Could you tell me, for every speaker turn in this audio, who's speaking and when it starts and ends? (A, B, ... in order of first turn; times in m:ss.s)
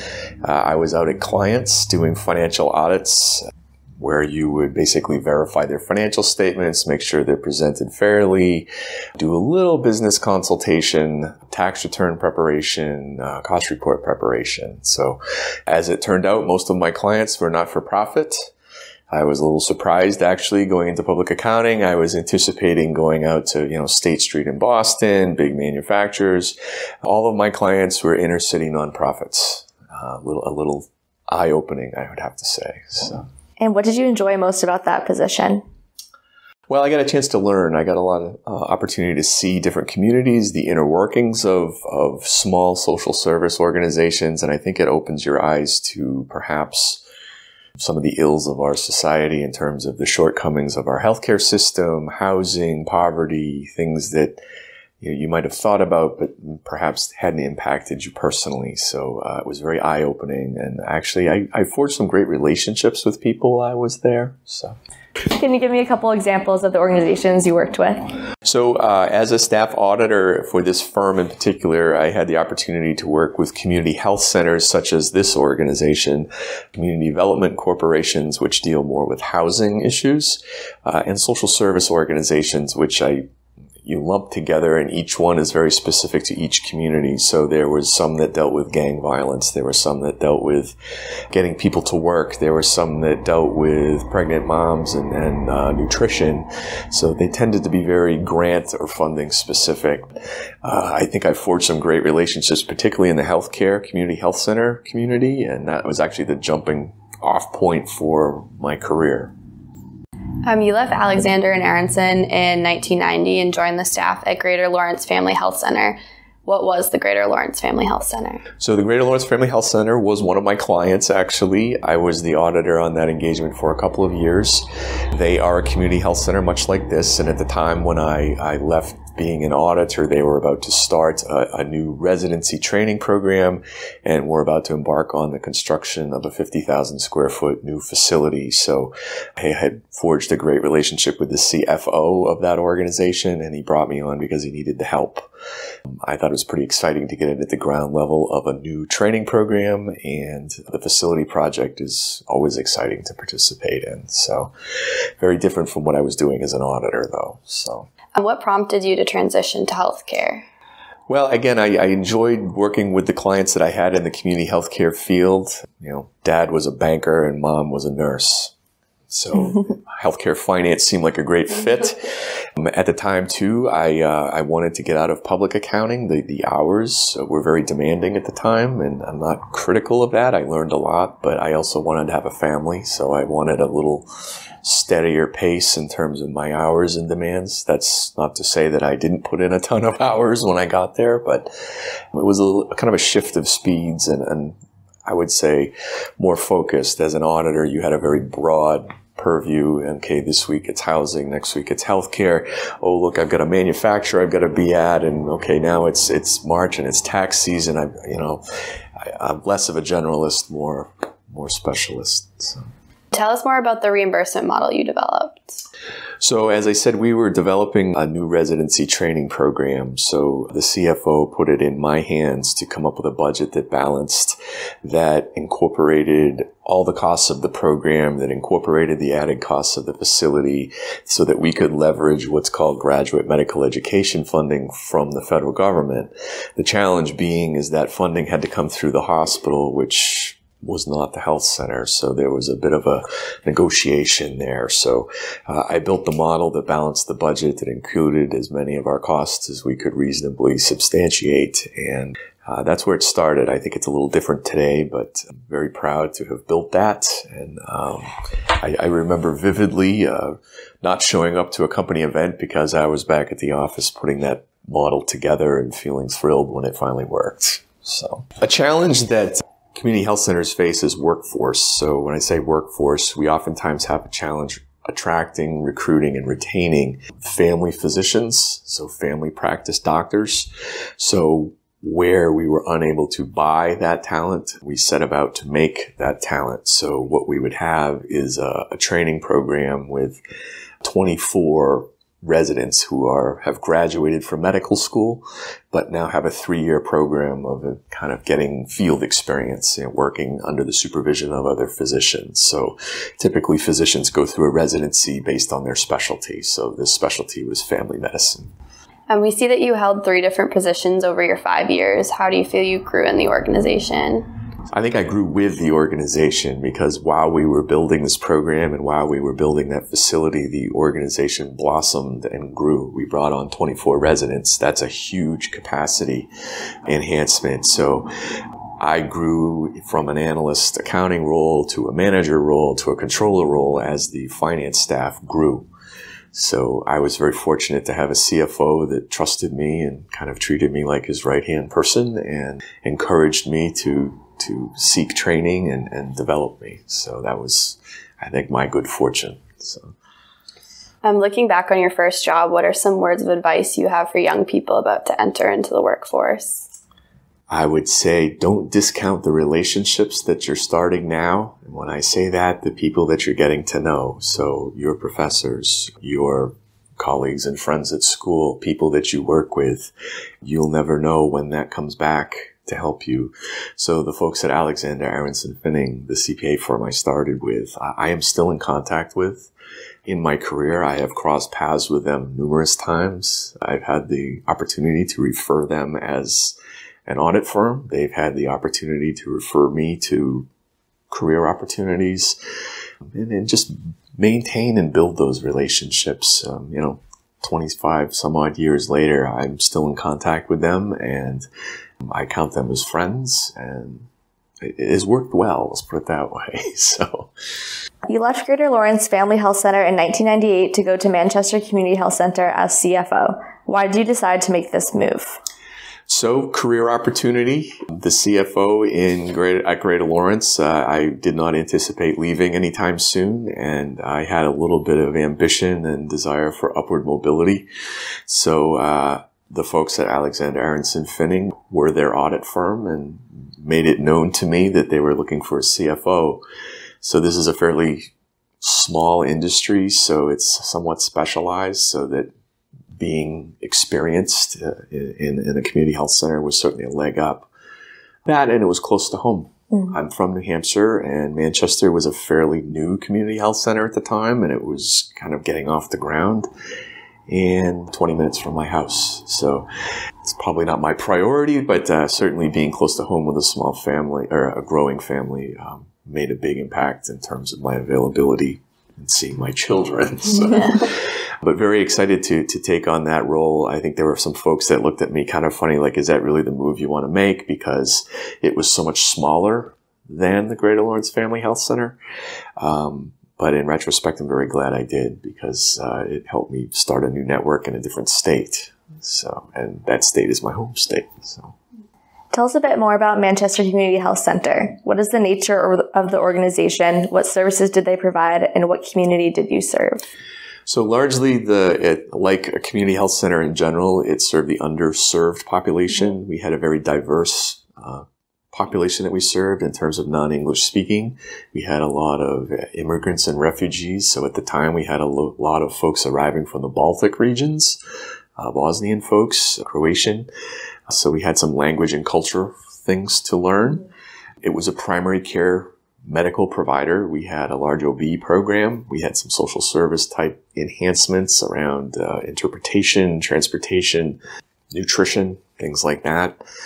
0:00.4-0:18.5 A
0:19.1-0:33.2 A
0:33.6-0:35.6 B
0:36.7-0:47.0 A
0:47.8-0:54.4 A
0:55.0-1:04.8 A
1:05.3-1:08.0 B
1:08.4-1:23.3 A
1:23.8-1:30.8 A
1:31.3-1:49.3 A
1:50.4-1:58.4 C
1:58.6-2:25.3 A
2:25.9-2:34.5 A
2:35.2-2:37.9 A
2:38.1-2:40.4 C
2:41.1-2:48.5 A
2:49.1-3:04.1 A
3:04.6-3:11.5 A
3:12.1-3:28.4 A
3:29.0-3:32.7 A
3:33.1-3:35.6 C
3:36.2-4:50.2 A
4:50.8-5:08.5 A
5:09.1-5:14.3 C
5:14.7-5:26.3 A
5:26.9-5:28.1 A
5:28.8-5:35.7 A
5:36.3-5:49.9 A
5:51.0-5:56.7 C
5:57.5-6:19.5 A
6:20.0-6:30.5 A
6:31.1-6:32.4 A
6:33.0-6:41.5 A
6:42.0-6:44.1 A
6:44.6-6:47.3 A
6:48.1-6:55.4 B
6:56.1-7:07.7 A
7:08.3-7:16.4 A
7:17.0-7:18.1 A
7:18.6-7:22.3 A
7:23.0-7:27.5 A
7:28.2-7:36.5 A
7:29.7-7:30.0 B
7:37.3-7:39.7 A
7:40.2-8:02.0 A
7:50.5-7:50.8 C
8:02.6-8:11.5 A
8:12.3-8:20.0 B
8:20.6-8:37.8 A
8:38.4-8:40.3 A
8:40.9-8:43.9 A
8:44.4-8:54.2 A
8:54.7-8:56.4 A